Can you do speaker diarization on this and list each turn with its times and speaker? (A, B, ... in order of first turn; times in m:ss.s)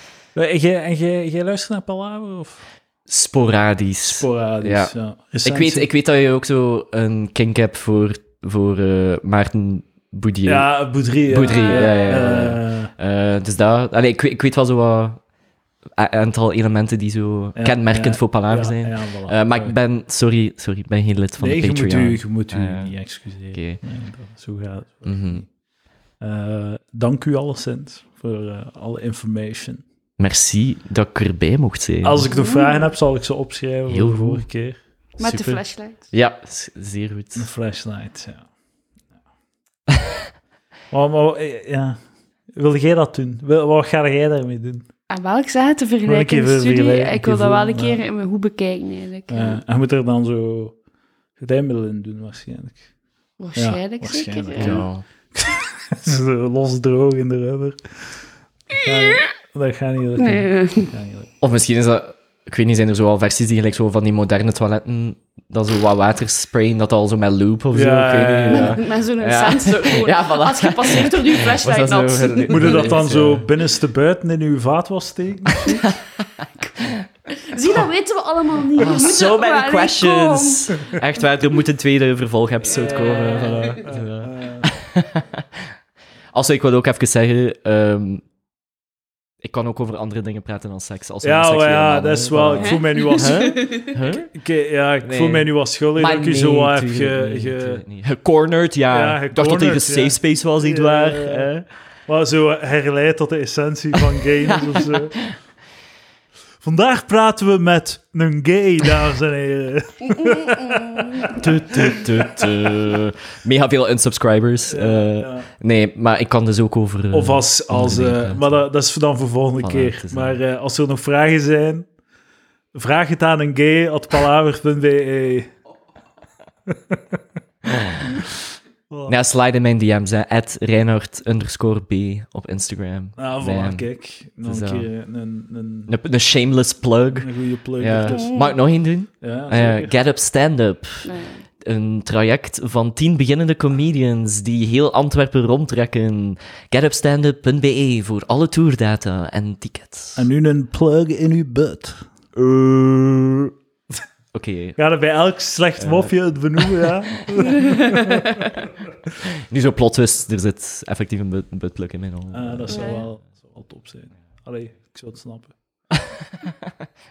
0:00.4-0:02.6 A
0:03.1-0:15.2 B
0:04.0-0:05.9 A
0:10.5-0:12.9 A
0:11.4-0:12.3 C
0:16.0-0:23.0 B
0:17.6-0:19.8 A
0:21.4-0:25.5 A
0:23.5-0:23.8 B
0:25.1-0:25.4 B
0:26.2-0:29.8 A
0:30.2-0:32.3 B
0:32.0-0:34.8 A
0:32.3-0:32.8 C
0:33.9-0:34.4 B
0:35.2-0:35.6 B
0:35.2-0:36.1 C
0:36.1-0:37.5 B
0:37.4-0:38.5 A
0:40.9-0:42.0 A
0:42.6-0:44.9 A
0:45.1-0:49.6 C
0:46.0-0:48.0 A
0:49.3-0:50.8 A
0:51.4-0:52.8 A
0:53.4-0:54.8 C
0:53.6-1:01.3 A
0:54.6-0:55.0 B
1:00.2-1:00.9 C
1:01.4-1:13.5 B
1:07.7-1:08.8 A
1:08.5-1:13.0 C
1:12.5-1:15.9 A
1:17.3-1:21.0 C
1:18.8-1:25.6 B
1:22.7-1:24.7 A
1:26.3-1:28.2 B
1:29.4-1:34.3 B
1:31.2-1:33.6 A
1:32.6-1:34.0 C
1:34.3-1:37.8 A
1:35.0-1:41.6 B
1:38.9-1:41.5 A
1:42.1-1:45.2 A
1:44.5-1:45.4 B
1:46.6-1:52.0 A
1:50.6-1:51.0 C
1:51.3-1:58.6 B
1:54.7-1:55.5 A
1:57.1-2:01.9 A
1:59.6-2:00.4 B
2:02.7-2:05.5 A
2:06.7-2:07.2 A
2:07.7-2:08.0 B
2:08.9-2:09.2 A
2:09.1-2:13.9 B
2:13.2-2:15.9 A
2:14.4-2:14.9 B
2:15.9-2:30.2 B
2:17.2-2:18.4 A
2:18.1-2:18.6 C
2:19.2-2:19.9 A
2:21.0-2:21.4 C
2:30.2-2:32.1 A
2:32.4-2:33.5 B
2:34.3-2:34.8 B
2:34.8-2:38.4 A
2:35.8-2:36.1 B
2:36.8-2:37.4 B
2:37.6-2:38.0 C
2:39.3-2:42.9 B
2:42.3-2:45.6 A
2:42.7-2:43.0 C
2:45.9-2:46.7 B